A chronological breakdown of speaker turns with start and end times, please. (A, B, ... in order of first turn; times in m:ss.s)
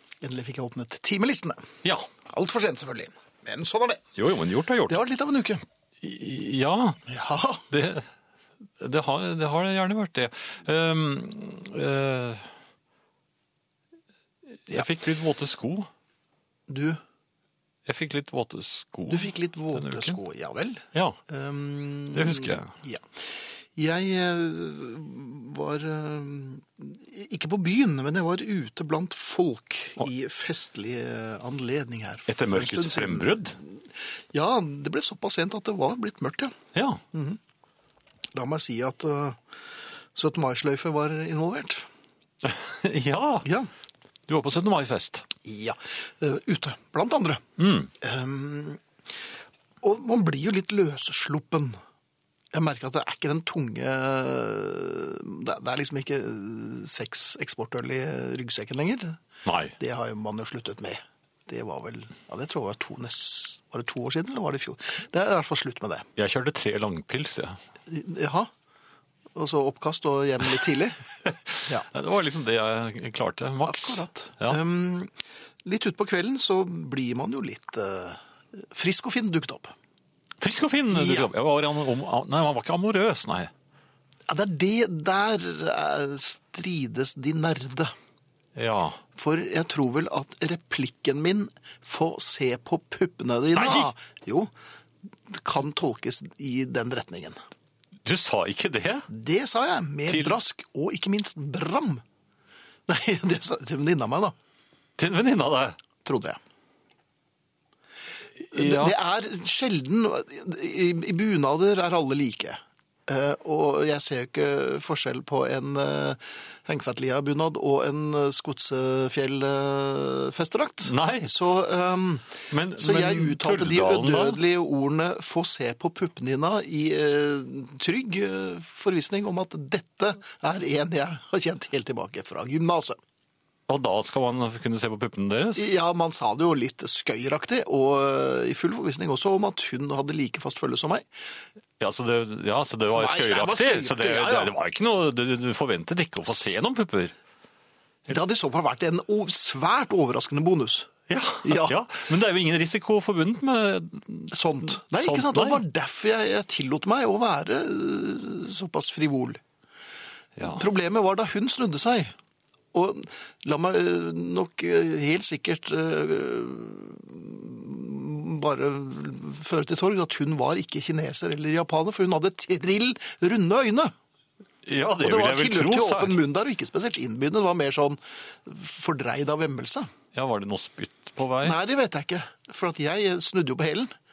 0:00.2-0:01.7 A
0:01.8-0:02.1 B
0:02.2-0:04.0 A
0:04.2-0:05.0 B
0:04.9-0:05.6 A
0:06.0-0:07.0 B
0:07.1-0:07.7 A
0:07.7-0:08.1 B
0:08.8-0:12.5 B
0:14.7-0:15.9 B
0:16.7-0:17.0 A
0:17.9-0:20.2 B
0:19.1-0:36.5 A
0:20.9-0:21.2 B
0:22.1-0:22.7 B
0:32.3-0:33.6 B
0:36.7-0:37.0 B
0:37.1-0:37.4 A
0:38.3-0:39.4 A
0:40.1-0:41.9 A
0:42.4-0:43.5 B
0:43.4-0:43.7 A
0:44.3-0:45.3 B
0:45.4-0:47.4 A
0:47.6-0:47.9 B
0:47.9-0:48.8 A
0:49.8-0:51.8 A
0:52.5-0:59.2 A
0:59.4-0:59.8 B
0:59.8-1:06.0 A
1:06.2-1:07.6 B
1:07.9-1:08.5 A
1:09.4-1:11.0 A
1:11.2-1:14.6 B
1:13.6-1:19.7 A
1:20.4-1:23.5 B
1:20.9-1:21.3 A
1:24.3-1:27.9 A
1:28.6-1:29.0 B
1:29.2-1:34.5 A
1:33.6-1:33.9 B
1:35.3-1:37.4 A
1:38.0-1:39.1 B
1:39.1-1:42.0 A
1:40.1-1:40.4 B
1:42.9-1:44.3 A
1:45.0-1:45.8 B
1:46.0-1:46.4 A
1:48.4-1:48.9 B
1:48.5-2:13.0 A
2:00.9-2:01.3 B
2:02.5-2:04.4 B
2:13.7-2:15.7 B
2:15.6-2:21.1 A
2:21.8-2:27.2 B
2:22.9-2:24.5 A
2:28.1-2:30.9 A
2:31.1-2:35.6 B
2:31.4-2:31.8 A
2:34.3-2:39.4 A
2:40.4-2:40.6 B
2:40.5-2:42.2 A
2:42.7-2:53.9 A
2:54.6-2:56.2 B
2:55.0-2:59.9 A
3:00.1-3:01.6 B
3:01.4-3:03.9 A